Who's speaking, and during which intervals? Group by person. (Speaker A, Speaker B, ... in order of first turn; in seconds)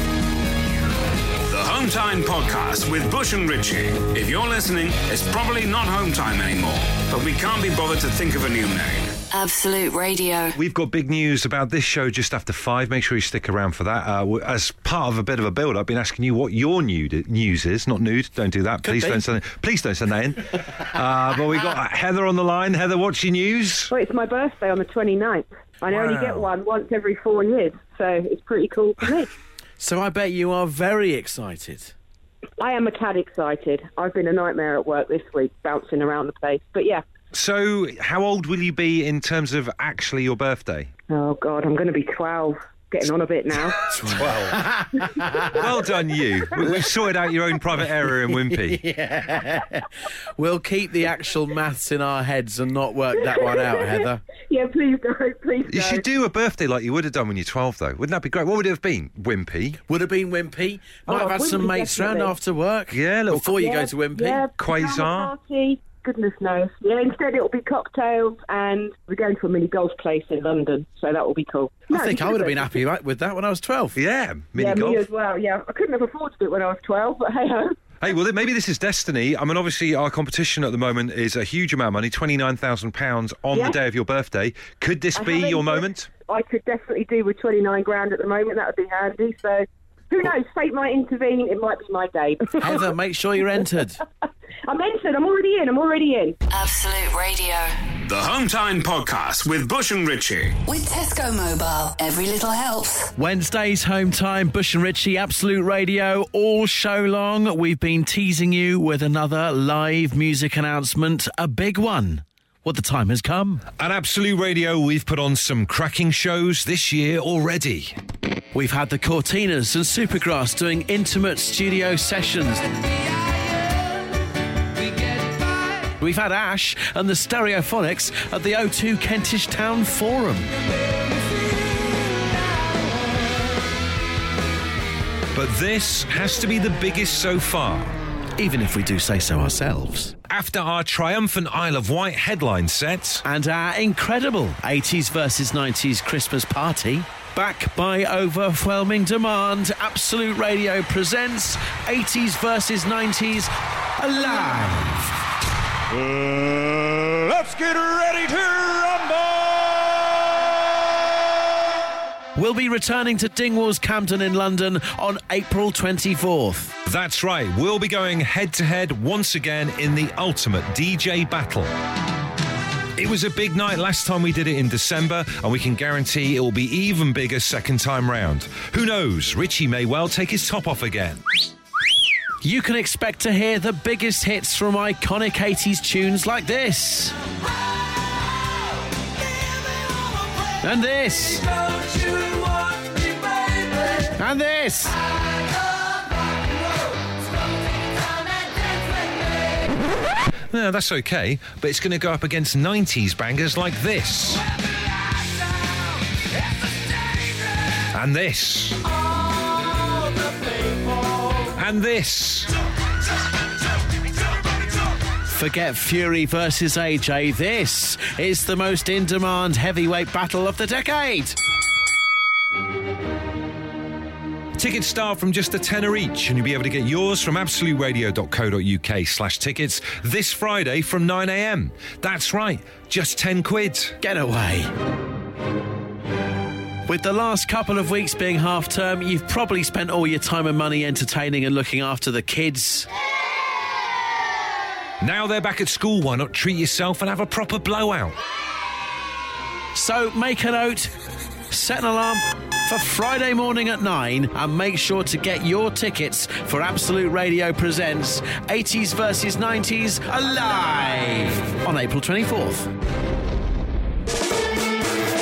Speaker A: 1.4-9.1, 98.0-100.6
Speaker B: 9.3-10.6, 96.5-97.8, 100.7-103.1
Speaker C: 10.6-23.9, 25.9-26.5, 37.3-40.9, 44.1-44.6, 45.5-48.8, 55.7-59.8, 62.9-63.6, 64.6-65.3, 74.0-75.0, 78.0-86.1, 113.8-118.0, 135.3-137.9, 140.3-143.2, 157.3-159.5, 166.8-171.7, 172.9-181.2, 200.5-204.4, 207.9-208.8, 211.5-212.5, 224.6-234.0, 245.0-248.2
Speaker D: 18.8-19.2, 29.8-31.9, 43.9-45.5, 48.3-54.2, 59.9-64.4, 71.9-74.0, 92.6-94.0, 103.2-113.6, 118.5-122.8, 126.0-130.5, 138.4-140.1, 143.2-155.2, 156.1-157.2, 162.3-166.7, 182.4-187.2, 190.6-191.8, 193.9-195.0, 215.2-221.4, 234.0-234.7, 236.9-242.9, 249.7-250.9, 251.5-262.7
Speaker E: 23.9-29.3, 32.6-37.0, 41.1-43.8, 53.2-56.0, 61.0-62.3, 63.5-72.7, 74.5-77.8, 83.5-83.8, 85.2-92.8, 94.7-96.4